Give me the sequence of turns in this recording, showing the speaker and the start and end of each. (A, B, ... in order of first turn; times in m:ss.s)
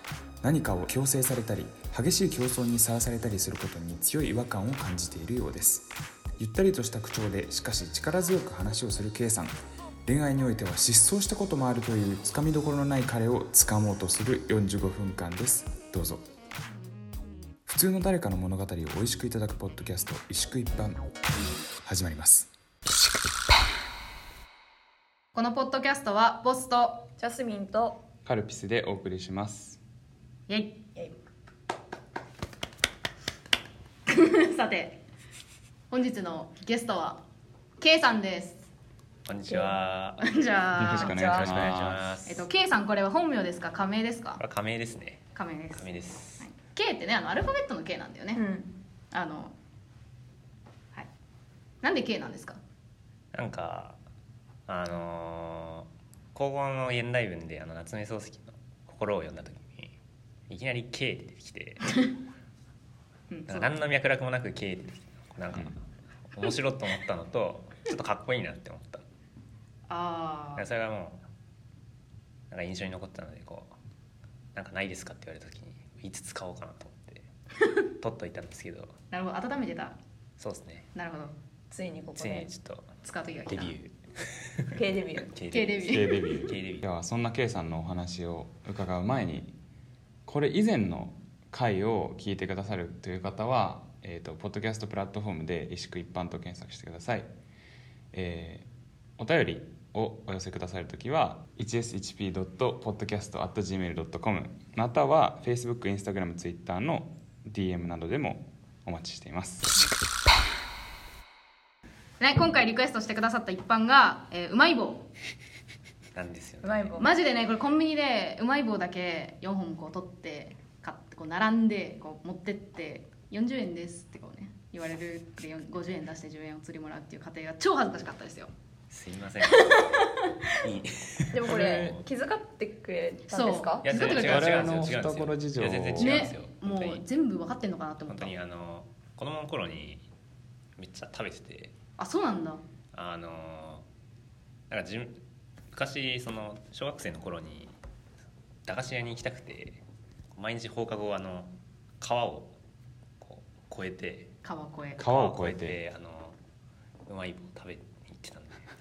0:00.4-0:09.5 A
0:10.0-0:16.2 A
0:17.7-0:21.1 A
0:21.8-0:22.5 A
0:25.3-0:27.1 B
0:27.2-0:28.0 C
0:28.2-0:29.8 A
0:30.5-0:30.8 B
0:34.1-0:35.0 B
0:35.9-0:37.2 B
0:37.8-0:38.6 B
0:39.2-0:40.2 D
0:40.2-0:41.1 B
0:40.8-0:42.2 A
0:40.9-0:41.9 C
0:41.2-0:42.5 D
0:42.2-0:44.4 B
0:44.4-0:46.5 D
0:45.4-0:45.9 B
0:46.4-0:48.4 B
0:48.3-0:48.7 C
0:49.1-0:49.5 B
0:51.8-0:52.6 B
0:53.3-0:54.0 D
0:54.7-0:59.9 D
1:00.5-1:02.0 D
1:03.3-1:03.8 B
1:03.5-1:09.0 D
1:09.9-1:10.7 B
1:10.6-1:11.2 D
1:12.5-1:13.7 D
1:14.6-1:17.3 D
1:18.0-1:19.0 D
1:19.1-1:20.0 B
1:20.4-1:20.9 D
1:21.0-1:21.3 B
1:21.7-1:22.5 C
1:22.2-1:23.0 D
1:23.0-1:23.8 B
1:23.5-1:26.9 D
1:24.7-1:25.3 C
1:25.5-1:26.4 B
1:25.8-1:29.5 A
1:30.3-1:37.3 A
1:38.1-1:38.7 A
1:39.2-1:49.9 A
1:52.2-1:55.1 B
1:56.1-1:57.0 D
1:56.6-1:57.1 C
1:57.0-2:08.5 B
2:08.9-2:12.0 D
2:09.5-2:10.6 B
2:11.3-2:13.9 C
2:11.5-2:11.9 A
2:13.3-2:14.7 B
2:13.8-2:17.0 D
2:14.0-2:16.3 A
2:16.0-2:18.3 B
2:18.1-2:20.1 D
2:20.8-2:21.7 D
2:22.0-2:22.6 B
2:22.9-2:23.8 D
2:24.7-2:27.8 D
2:28.7-2:29.8 D
2:30.3-2:32.5 D
2:33.2-2:34.3 D
2:34.4-2:35.0 B
2:35.0-2:35.8 A
2:35.0-2:36.4 D
2:37.1-2:38.7 D